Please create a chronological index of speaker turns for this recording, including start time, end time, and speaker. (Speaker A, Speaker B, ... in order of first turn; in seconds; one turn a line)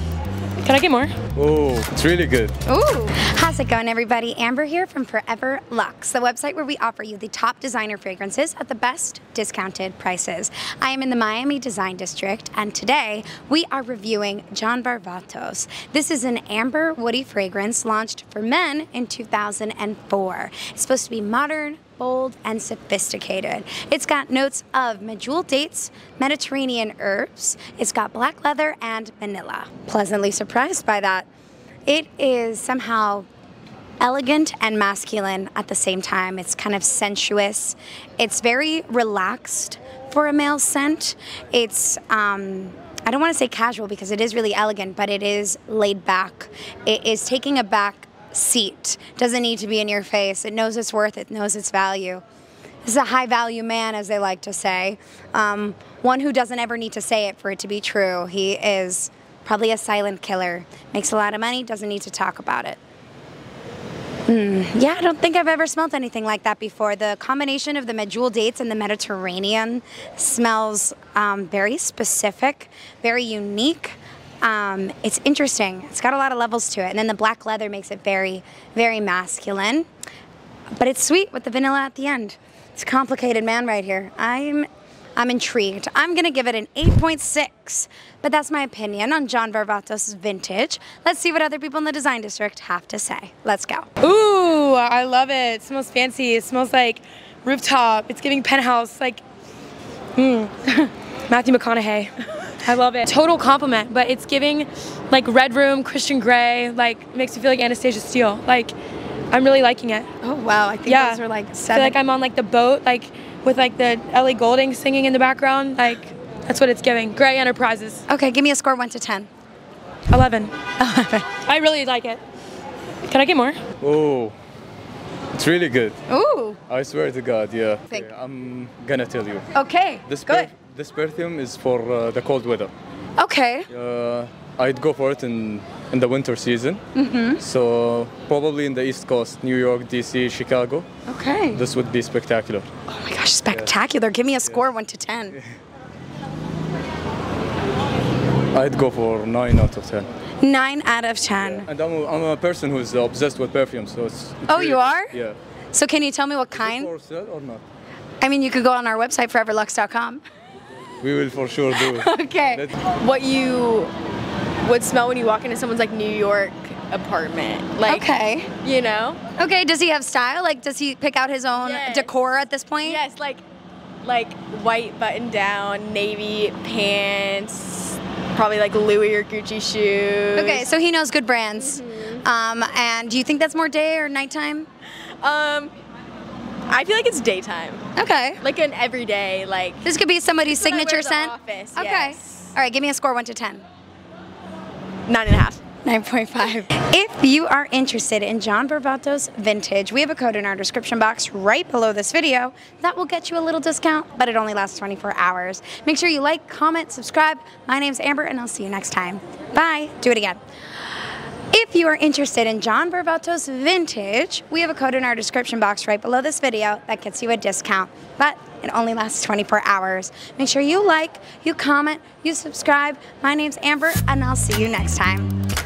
Speaker A: 0.6-1.1
Speaker B: 1.4-2.5
Speaker C: 2.7-31.3
Speaker C: 31.9-33.3
Speaker C: 34.0-52.2
Speaker C: 52.8-62.8
Speaker C: 64.3-79.9
Speaker C: 80.8-93.9
Speaker A: 94.0-99.2
Speaker C: 100.2-100.9
Speaker A: 101.3-108.7
Speaker A: 109.3-110.1
Speaker C: 110.2-112.0
Speaker A: 110.9-111.2
Speaker A: 111.7-118.0
Speaker C: 118.1-119.3
Speaker A: 120.1-120.5
Speaker C: 120.8-121.2
Speaker A: 121.4-122.2
Speaker A: 123.0-123.6
Speaker B: 123.8-124.3
Speaker B: 125.3-126.0
Speaker C: 126.1-126.6
Speaker B: 126.7-129.5
Speaker C: 129.5-130.5
Speaker B: 130.1-132.7
Speaker C: 133.2-133.7
Speaker B: 133.7-136.8
Speaker C: 136.9-137.4
Speaker B: 137.4-140.9
Speaker C: 141.1-141.6
Speaker B: 141.5-142.7
Speaker C: 142.9-145.4
Speaker B: 148.5-150.1
Speaker C: 150.4-151.7
Speaker B: 151.4-155.4
Speaker C: 154.5-155.1
Speaker C: 155.7-156.9
Speaker B: 156.5-157.6
Speaker C: 158.2-160.2
Speaker B: 161.0-162.8
Speaker C: 161.7-162.7
Speaker D: 162.9-163.9
Speaker D: 164.6-168.1
Speaker C: 167.9-168.5
Speaker D: 168.6-169.2
Speaker C: 169.4-173.0
Speaker D: 171.6-172.1
Speaker D: 172.8-173.4
Speaker D: 174.0-180.7
Speaker C: 180.3-184.7
Speaker D: 181.6-182.2
Speaker D: 185.2-185.7
Speaker D: 186.7-187.8
Speaker C: 187.9-188.4
Speaker D: 188.4-189.8
Speaker C: 189.8-193.7
Speaker D: 190.5-192.5
Speaker D: 195.1-195.6
Speaker C: 195.8-210.4
Speaker C: 211.5-225.3